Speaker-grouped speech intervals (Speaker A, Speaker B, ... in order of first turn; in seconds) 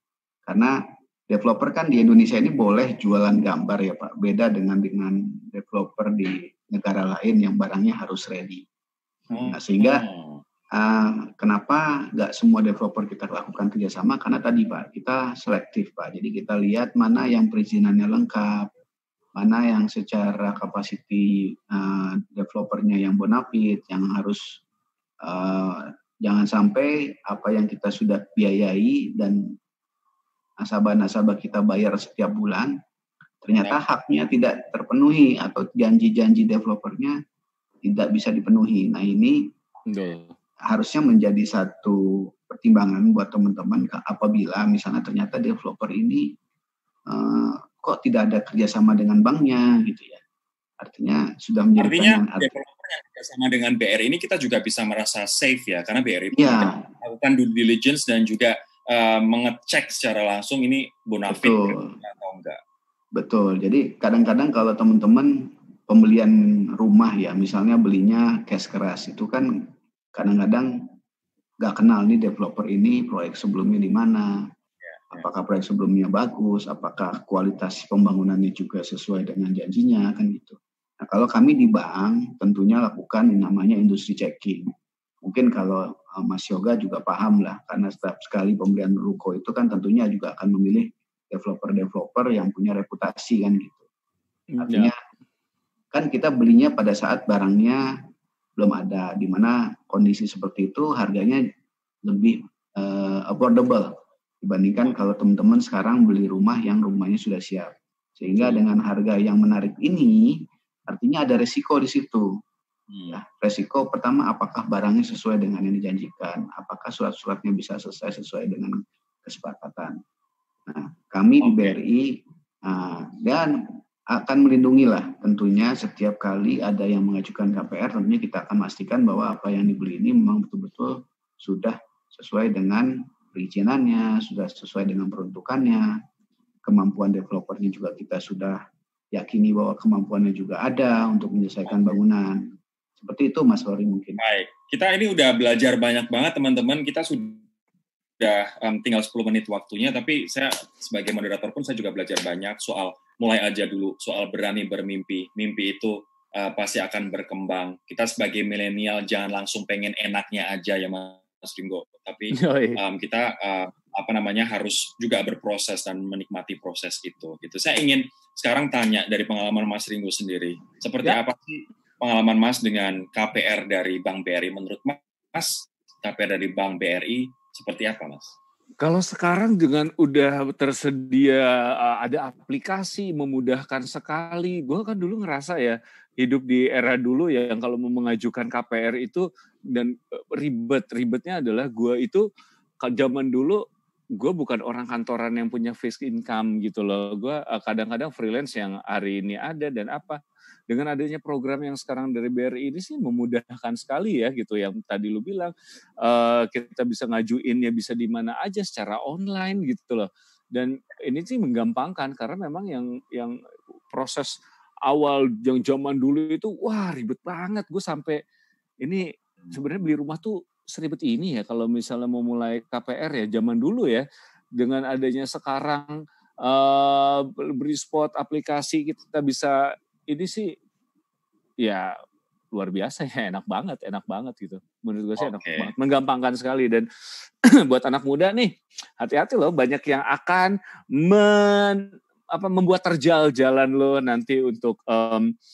Speaker A: 0.5-8.7, 9.5-10.1, 10.7-18.7, 19.4-24.6, 25.2-29.5, 30.6-32.8, 33.4-37.2, 37.8-39.5, 40.7-46.3, 47.1-50.2, 50.8-52.6, 56.4-56.8, 61.3-61.9, 63.1-70.7, 71.6-74.5, 75.1-84.7, 85.2-93.8, 94.6-95.0, 95.9-97.8, 98.6-101.4, 102.1-112.3, 113.1-120.0, 120.7-123.6, 124.1-135.9, 136.7-138.6, 139.1-144.2
Speaker B: 9.3-10.4, 33.5-33.8, 51.8-62.6, 74.8-75.2, 112.9-113.2, 121.4-121.8, 144.2-147.4, 148.2-178.3, 235.2-235.7
Speaker C: 39.9-40.4, 94.5-94.9, 162.3-162.8, 178.8-192.3, 192.8-193.6, 194.2-213.4, 213.9-214.4, 214.9-218.2, 218.8-224.0, 224.6-229.6, 230.1-230.5, 231.6-231.9, 232.5-236.9, 237.7-245.3